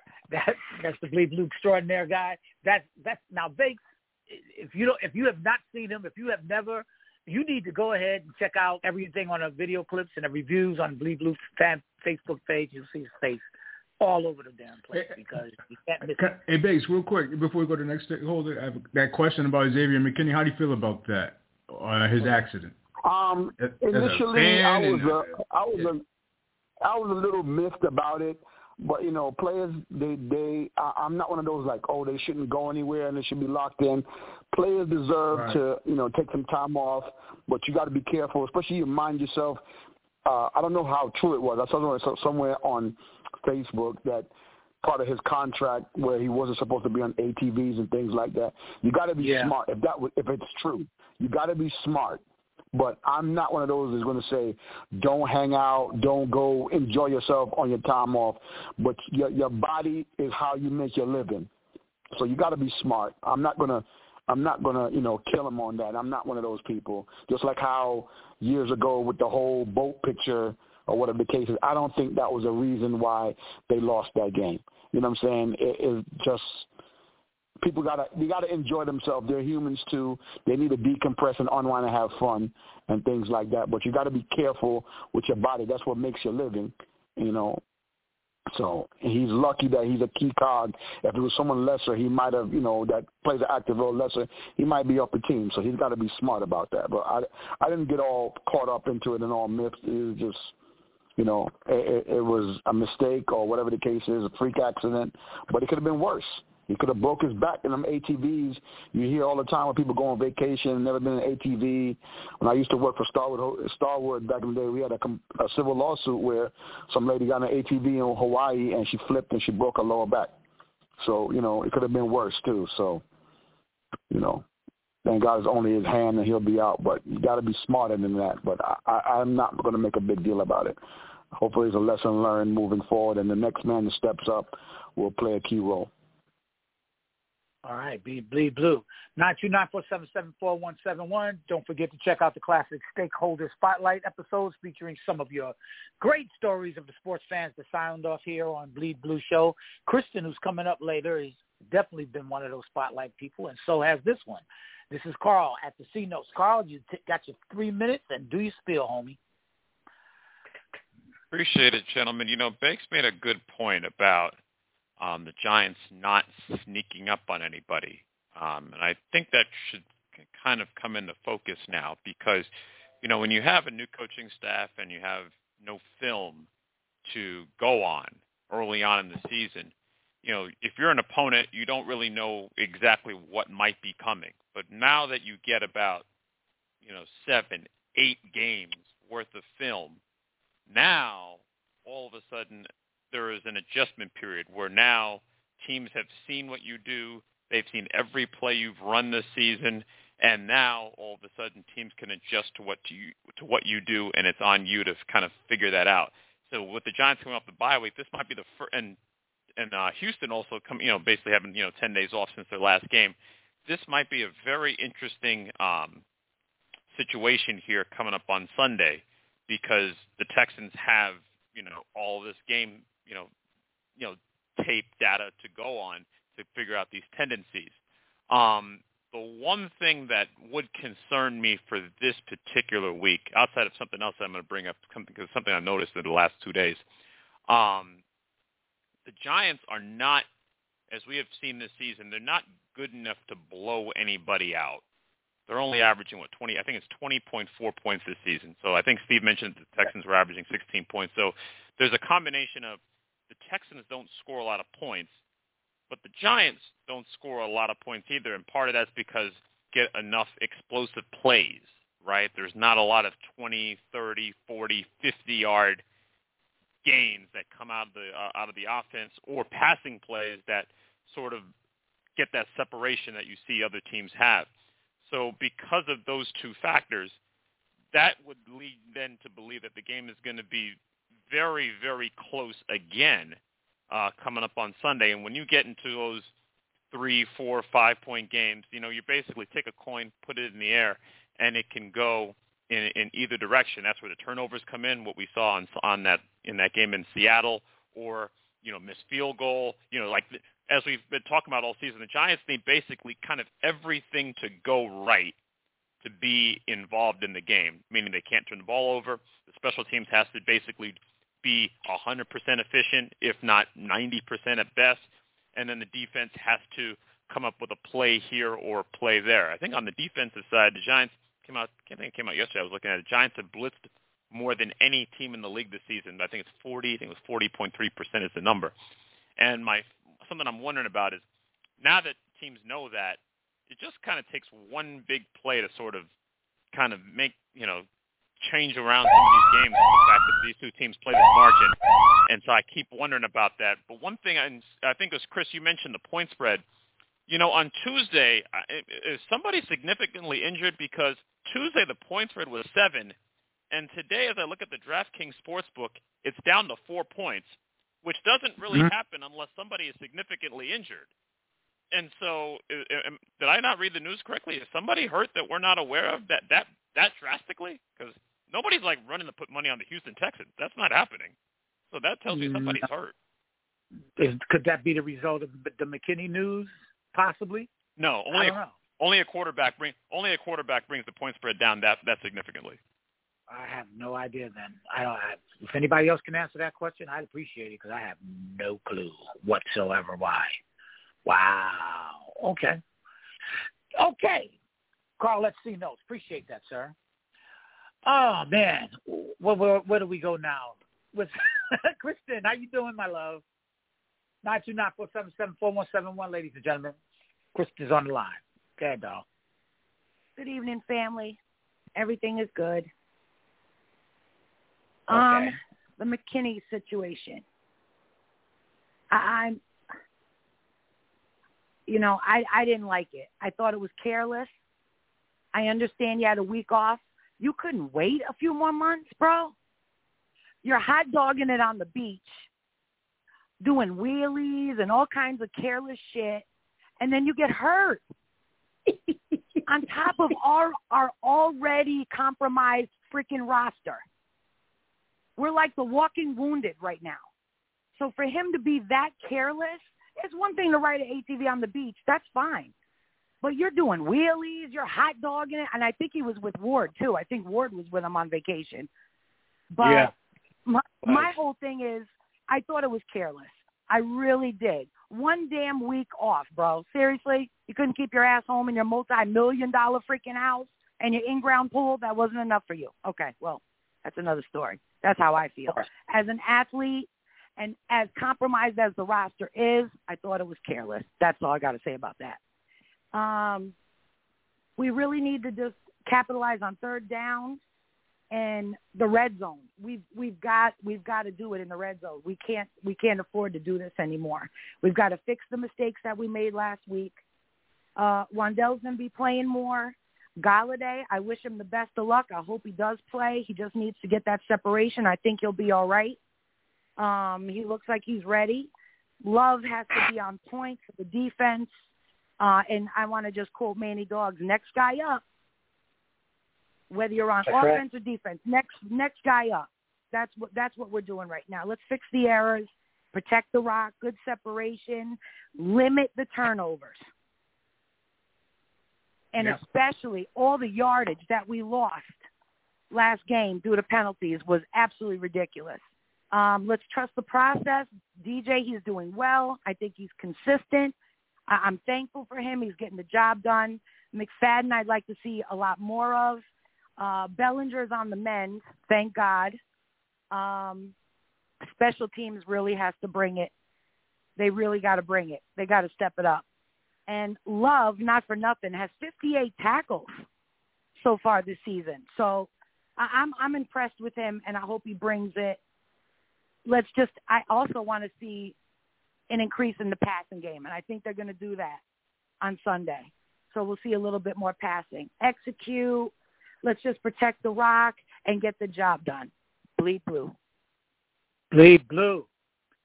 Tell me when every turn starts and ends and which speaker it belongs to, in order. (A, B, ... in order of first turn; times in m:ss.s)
0:00.3-0:13.4 A
0:14.0-0:16.3 A
0:16.2-0:22.8 B
0:23.0-0:26.0 C
0:23.6-0:25.9 B
0:26.8-0:39.6 C
0:35.3-0:35.6 B
0:40.2-0:44.3 C
0:44.8-0:52.2 C
0:49.2-0:49.5 A
0:52.7-1:01.5 C
1:02.2-1:16.7 C
1:17.6-1:27.6 C
1:28.5-1:40.5 C
1:41.2-2:00.3 C
2:01.0-2:03.0 C
2:04.1-2:04.5 C
2:05.0-2:10.8 C
2:11.4-2:15.9 C
2:17.6-2:39.2 A
2:41.3-2:44.4 D
2:45.0-2:56.5 D
2:57.0-3:06.0 D
3:06.8-3:10.0 D
3:10.7-3:29.0 D
3:29.6-3:36.0 D
3:36.9-3:43.3 D
3:44.0-3:47.8 D
3:48.3-3:56.8 D
3:57.5-3:58.0 D
3:59.1-4:00.3 D
4:00.9-4:04.8 D
4:05.5-4:12.8 D
4:13.3-4:15.2 D
4:15.9-4:25.8 D
4:26.8-4:31.5 D
4:32.2-4:34.5 D
4:35.0-4:37.2 D
4:37.9-4:40.8 D
4:41.3-4:43.4 D
4:43.9-4:46.3 D
4:46.9-5:05.4 D
5:06.0-5:28.8 D
5:29.4-5:31.2 D
5:31.8-5:36.1 D
5:36.7-5:37.9 D
5:38.4-5:46.6 D
5:47.3-5:53.2 D
5:53.7-6:01.1 D
6:01.9-6:11.3 D
6:11.9-6:13.1 D
6:12.3-6:12.8 A
6:14.2-6:17.7 A
6:18.0-6:22.8 D
6:18.3-6:18.8 A
6:23.5-6:30.6 A
6:31.3-6:32.8 A
6:34.0-6:34.5 A
6:35.2-6:36.9 A
6:38.1-6:43.4 A
6:44.4-6:47.0 A
6:47.6-6:49.2 A
6:50.4-6:51.4 E
6:52.0-6:52.9 E
6:55.1-6:55.5 A
6:55.1-6:57.4 E
6:59.1-6:59.6 E
7:01.9-7:04.5 E
7:05.5-7:09.5 E
7:10.6-7:12.4 E
7:13.6-7:16.4 E
7:17.0-7:18.1 E
7:19.7-7:24.0 E
7:25.4-7:27.2 E
7:28.0-7:32.7 E
7:33.4-7:38.9 E
7:39.7-7:40.1 E
7:39.8-7:40.1 A
7:40.7-8:02.4 E
7:41.0-7:41.4 A
8:03.1-8:03.7 E
8:04.8-8:07.6 E
8:08.3-8:17.2 E
8:18.0-8:26.2 E
8:27.0-8:28.7 E
8:29.2-8:31.7 E
8:32.4-8:35.2 E
8:36.9-8:47.0 E
8:37.4-8:37.8 A
8:49.3-8:52.2 E
8:52.9-9:00.9 E
9:01.5-9:06.5 E
9:07.0-9:09.6 E
9:10.3-9:10.9 E
9:11.6-9:13.5 E
9:14.4-9:16.4 E
9:17.1-9:20.2 E
9:21.0-9:25.6 E
9:26.7-9:28.6 E
9:29.3-9:31.8 E
9:32.4-9:36.1 E
9:36.6-9:40.3 E
9:41.5-9:42.3 A